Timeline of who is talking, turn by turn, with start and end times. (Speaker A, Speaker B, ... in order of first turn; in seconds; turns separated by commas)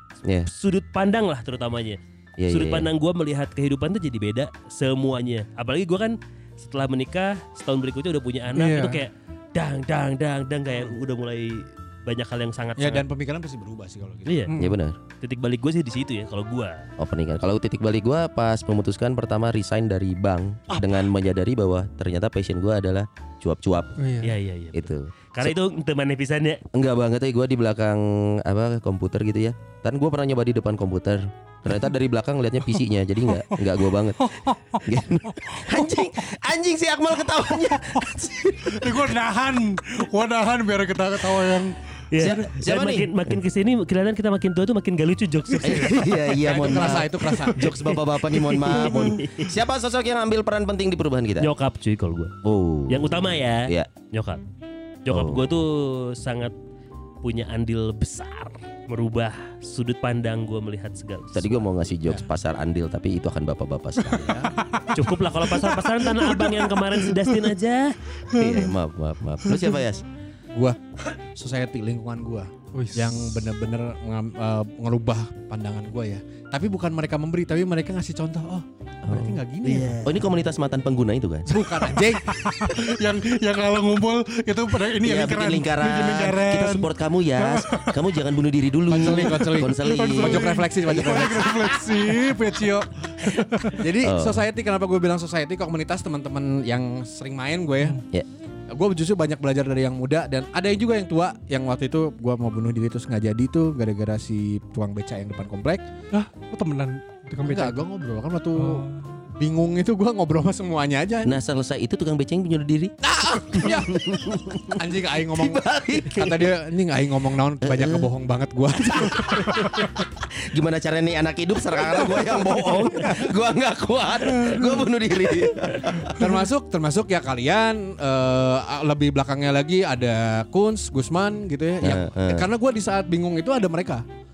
Speaker A: 0.5-13.1, Speaker B: 2.4-2.9, Speaker C: 8.6-9.1, Speaker D: 12.8-14.5, Speaker A: 14.3-14.5, Speaker C: 14.5-14.8, Speaker B: 14.6-15.0, Speaker A: 15.2-16.9, Speaker B: 17.0-23.9, Speaker C: 24.0-24.4, Speaker A: 24.2-26.6, Speaker B: 24.7-25.6, Speaker B: 26.7-34.3, Speaker C: 32.7-36.1, Speaker B: 34.8-39.2, Speaker C: 37.5-38.1, Speaker C: 38.6-42.4, Speaker A: 42.1-49.5, Speaker B: 42.2-43.1, Speaker C: 45.5-46.0, Speaker B: 45.6-51.5, Speaker D: 46.4-47.6, Speaker C: 48.8-49.1, Speaker A: 51.4-52.4, Speaker B: 52.4-53.9, Speaker A: 52.9-54.4, Speaker A: 55.1-56.5, Speaker B: 55.1-55.4, Speaker A: 57.2-61.6, Speaker B: 61.4-64.4, Speaker D: 64.1-64.5, Speaker C: 64.6-67.5, Speaker A: 64.9-68.0, Speaker C: 68.3-68.7, Speaker B: 68.3-70.0, Speaker C: 69.5-69.8, Speaker D: 70.5-80.1, Speaker C: 72.7-73.4, Speaker B: 79.0-79.4, Speaker A: 79.7-80.1, Speaker B: 80.0-81.7, Speaker D: 81.5-82.8, Speaker C: 81.8-88.0, Speaker B: 85.0-91.7, Speaker D: 88.9-92.2, Speaker C: 89.0-93.8, Speaker D: 93.7-98.0, Speaker B: 94.0-94.4, Speaker D: 98.7-105.8, Speaker C: 106.1-107.8, Speaker D: 107.4-108.9, Speaker C: 108.6-109.2, Speaker D: 109.4-111.4, Speaker B: 111.2-116.5, Speaker D: 113.0-119.9, Speaker B: 117.6-118.1, Speaker B: 119.0-126.3, Speaker C: 124.2-124.9, Speaker D: 126.1-134.1, Speaker B: 131.8-132.5